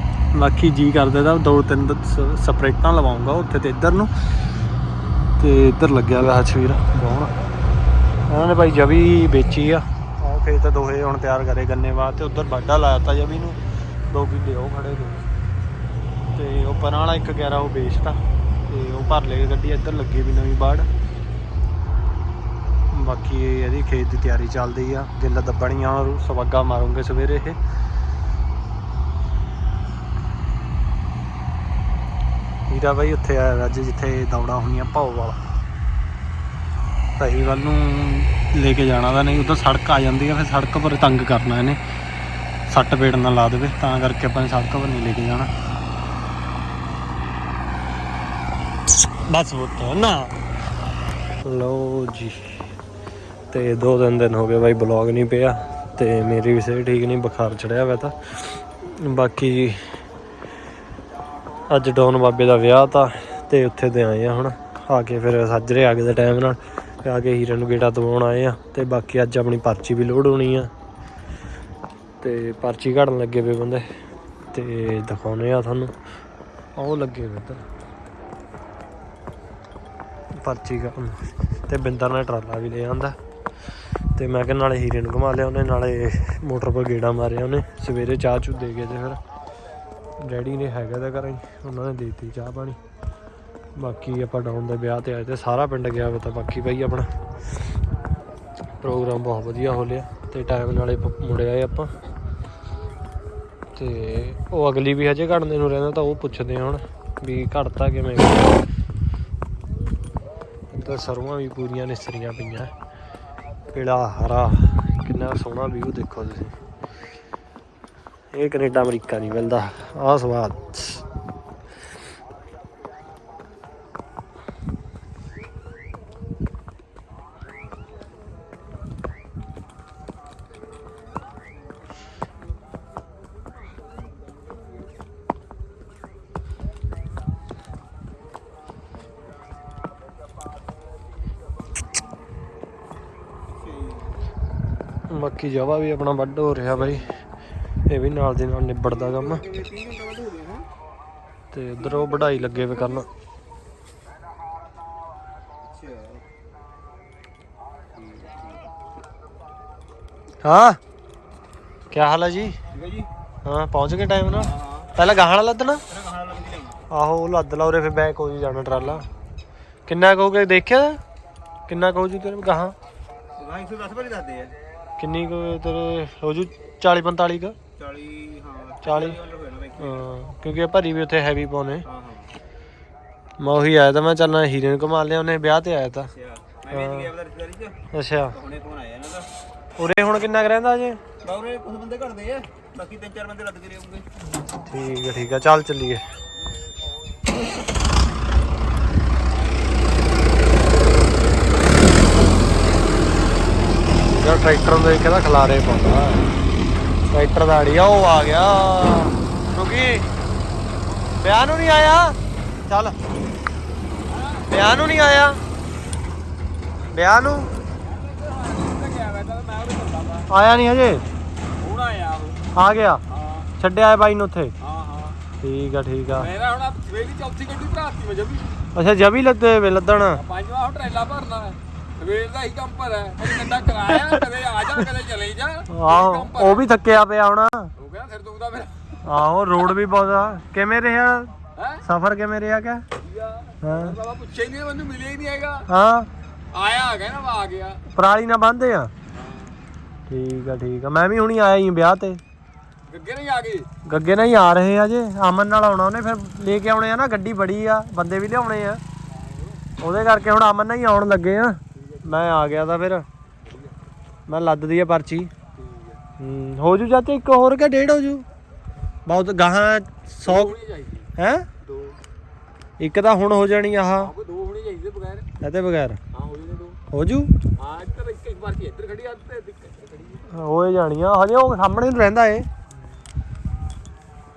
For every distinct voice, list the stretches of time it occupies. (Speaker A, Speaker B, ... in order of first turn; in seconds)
Speaker A: 0.3-4.1, 5.4-7.3, 8.3-15.3, 16.3-20.9, 22.9-27.6, 32.7-35.4, 37.2-41.8, 42.7-45.5, 49.2-50.4, 51.4-52.6, 53.5-60.0, 61.7-70.7, 72.2-73.8, 74.5-75.9, 76.8-77.6, 80.4-83.2, 84.1-89.2, 90.2-92.8, 93.8-97.1, 98.8-101.9, 103.7-108.6, 110.7-112.7, 113.7-116.5, 118.3-121.0, 145.1-147.1, 147.9-149.4, 151.5-153.1, 160.4-160.8, 161.9-162.6, 163.4-165.8, 166.9-169.1, 169.9-171.0, 171.7-172.7, 175.0-177.6, 178.8-179.2, 179.8-181.8, 183.4-186.1, 186.7-187.1, 187.9-188.3, 189.8-191.0, 194.5-196.0, 204.2-206.3, 207.1-210.1, 211.2-213.0, 214.5-215.4, 216.9-217.5, 220.3-221.0, 222.5-223.0, 223.6-224.5, 225.4-226.3, 228.7-230.2, 235.7-237.7, 239.0-241.3, 241.8-242.8, 243.6-244.0, 245.7-246.1, 247.9-248.9, 250.1-252.2, 253.8-258.8, 259.8-263.1, 264.3-265.3, 266.2-268.2, 269.1-270.6, 271.2-271.5, 272.8-274.1, 275.4-276.0, 276.9-277.3, 280.3-282.5
Speaker B: 143.6-144.1, 148.9-150.7, 151.8-153.0, 155.6-156.2, 158.0-158.5, 162.7-163.1, 164.4-164.9, 165.9-166.8, 173.4-174.6, 177.8-180.0, 181.8-182.3, 186.1-187.8, 188.3-189.3, 191.2-194.1
Speaker C: 214.1-214.5, 217.8-220.3, 221.6-222.5, 223.1-223.5, 224.6-225.2, 226.1-228.6, 230.1-236.7, 237.8-238.9, 241.6-241.8, 243.0-245.7, 246.5-247.8, 249.1-249.5, 252.9-253.7, 259.2-259.6, 261.8-262.1, 263.5-263.7, 265.6-266.0, 270.2-271.1, 274.0-275.3, 276.1-276.8, 277.6-280.2